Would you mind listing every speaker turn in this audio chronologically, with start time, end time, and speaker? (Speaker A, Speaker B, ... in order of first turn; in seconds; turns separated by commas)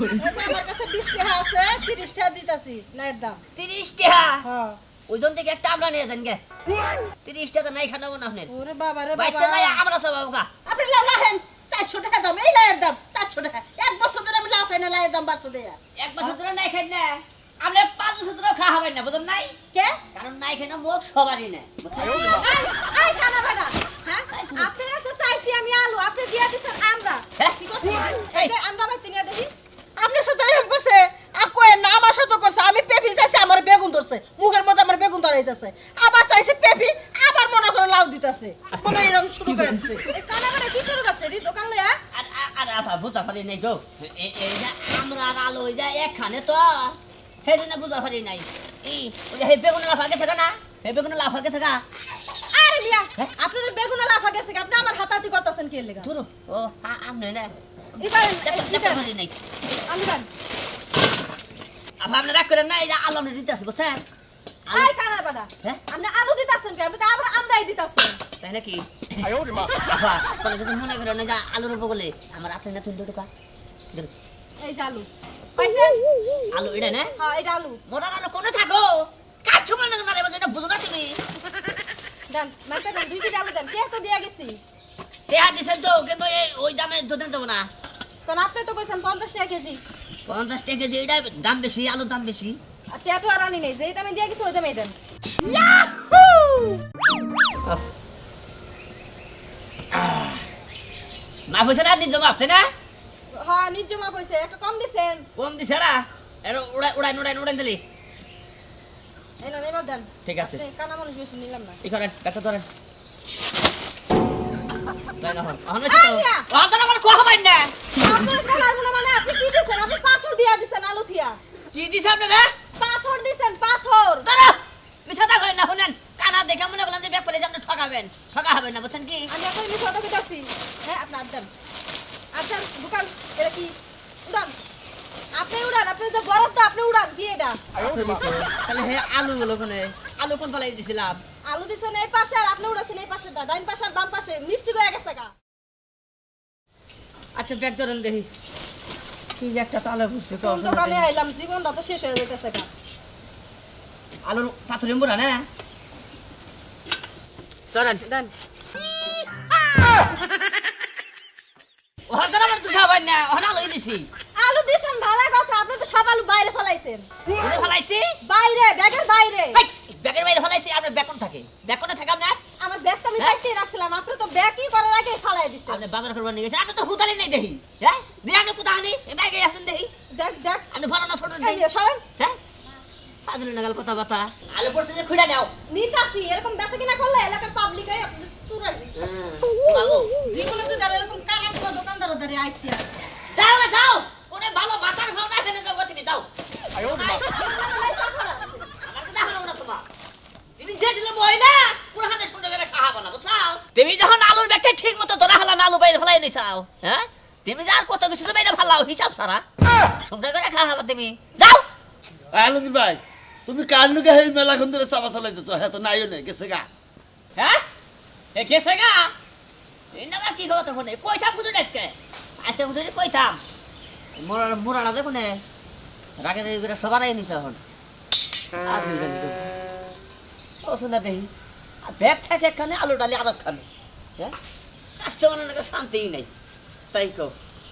Speaker A: 0.1-3.4, Speaker B: 3.5-4.5, Speaker A: 4.4-4.8, Speaker B: 5.1-6.4, Speaker B: 7.2-8.5, Speaker A: 8.5-9.8, Speaker B: 9.1-10.5, Speaker A: 10.7-16.3, Speaker B: 16.0-19.6, Speaker B: 20.1-22.5, Speaker C: 22.4-29.5, Speaker B: 24.3-24.7, Speaker A: 30.0-40.1, Speaker C: 40.1-42.0, Speaker B: 42.1-51.8, Speaker C: 52.5-56.1, Speaker B: 56.0-57.5, Speaker C: 58.0-59.0, Speaker B: 58.4-59.3, Speaker C: 59.9-60.3, Speaker B: 62.0-64.0, Speaker C: 64.7-68.2, Speaker B: 68.4-73.3, Speaker C: 74.6-76.0, Speaker B: 76.5-77.1, Speaker C: 77.2-77.8, Speaker B: 77.9-81.2, Speaker C: 82.3-84.6, Speaker B: 85.3-87.7, Speaker C: 88.2-89.8, Speaker B: 90.3-92.6, Speaker C: 92.9-94.9, Speaker B: 99.9-100.4, Speaker B: 101.5-102.7, Speaker C: 103.3-105.3, Speaker B: 105.4-107.8, Speaker C: 109.4-111.8, Speaker B: 110.2-110.6, Speaker B: 111.8-112.7, Speaker B: 115.2-117.7, Speaker C: 115.9-116.5, Speaker C: 118.0-121.4, Speaker B: 121.7-122.5, Speaker C: 122.8-124.3, Speaker B: 124.2-129.3, Speaker C: 129.3-131.5, Speaker C: 132.3-133.8, Speaker C: 134.3-134.5, Speaker C: 135.4-137.6, Speaker B: 137.8-141.2, Speaker C: 141.5-145.3, Speaker B: 147.3-148.3, Speaker B: 149.4-151.1, Speaker C: 150.4-152.7, Speaker B: 154.2-155.4, Speaker B: 157.7-158.0, Speaker C: 158.0-158.3, Speaker B: 162.1-164.1, Speaker C: 164.4-167.1, Speaker B: 167.4-168.2, Speaker C: 168.2-169.6, Speaker B: 169.5-172.4, Speaker C: 172.6-175.8, Speaker B: 175.7-179.9, Speaker C: 180.1-180.7, Speaker B: 180.7-181.6, Speaker C: 181.4-182.0, Speaker B: 183.3-185.5, Speaker C: 185.7-189.2, Speaker B: 189.0-190.1, Speaker C: 190.3-192.8, Speaker B: 193.3-197.2, Speaker C: 197.0-198.7, Speaker B: 198.8-199.8, Speaker B: 200.6-209.4, Speaker B: 210.1-211.7, Speaker D: 212.3-216.7, Speaker B: 218.3-219.1, Speaker B: 219.9-223.4, Speaker B: 224.2-225.4, Speaker B: 226.2-227.6, Speaker B: 228.7-229.5, Speaker B: 230.6-231.3, Speaker B: 231.8-233.7, Speaker B: 235.0-236.3, Speaker B: 236.9-237.3